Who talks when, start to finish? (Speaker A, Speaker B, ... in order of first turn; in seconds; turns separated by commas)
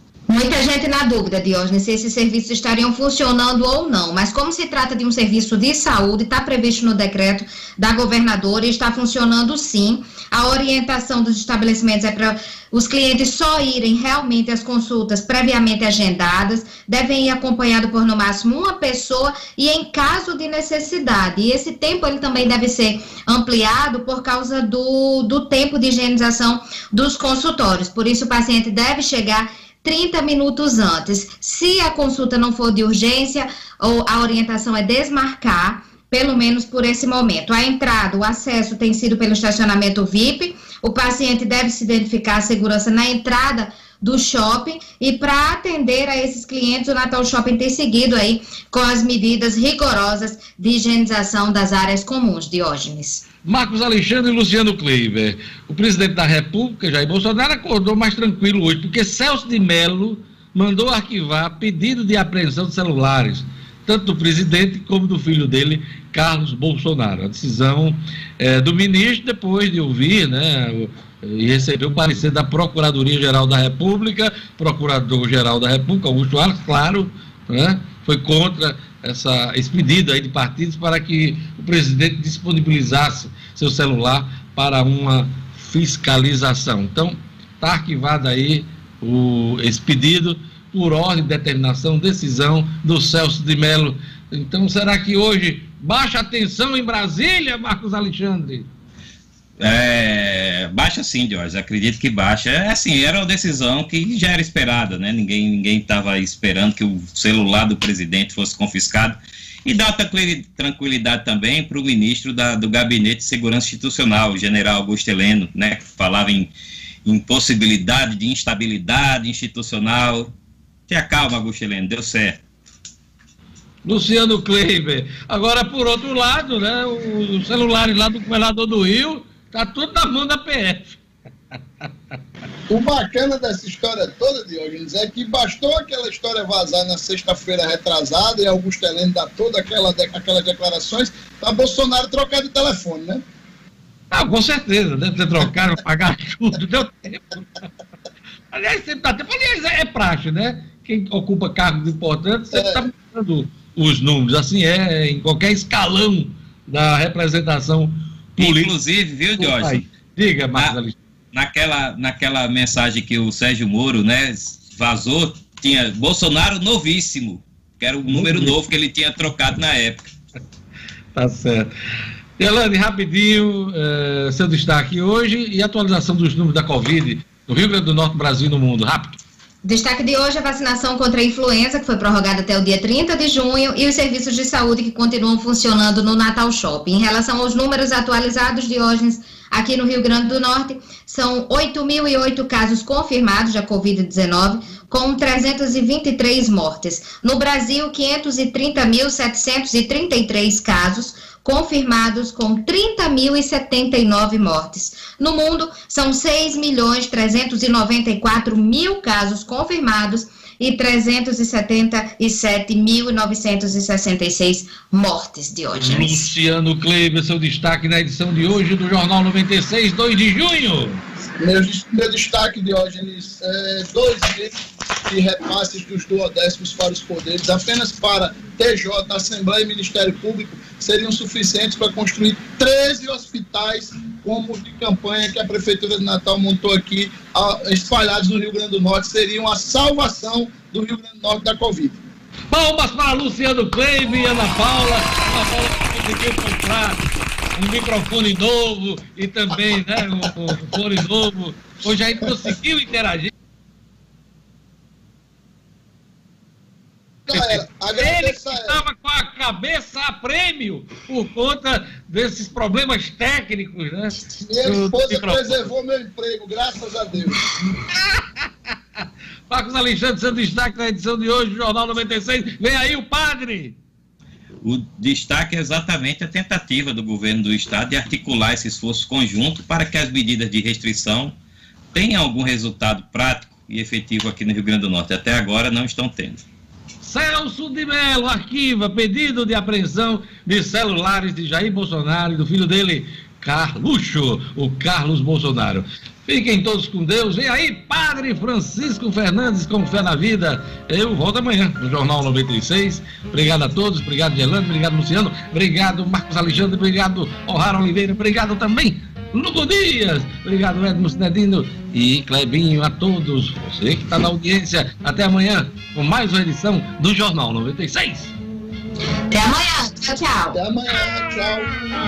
Speaker A: 0.3-53.2, Speaker B: 53.4-98.7, Speaker C: 99.6-116.5, Speaker C: 117.0-120.3, Speaker C: 120.9-122.4, Speaker B: 123.8-131.0, Speaker D: 132.7-143.2, Speaker B: 144.1-147.7, Speaker B: 148.5-158.7, Speaker D: 152.5-152.8, Speaker C: 158.4-159.8, Speaker B: 159.4-160.9, Speaker C: 161.3-170.1, Speaker B: 168.1-168.6, Speaker B: 171.1-171.7, Speaker B: 172.4-179.2, Speaker A: 179.6-216.3, Speaker B: 215.8-221.0, Speaker D: 221.4-242.0, Speaker B: 242.5-247.0, Speaker B: 247.6-253.3, Speaker B: 257.3-265.7, Speaker D: 257.3-258.8, Speaker D: 264.3-267.5, Speaker B: 267.7-273.8, Speaker C: 274.6-281.3, Speaker C: 281.9-286.4, Speaker B: 287.0-318.3, Speaker A: 319.3-320.6, Speaker D: 320.5-321.8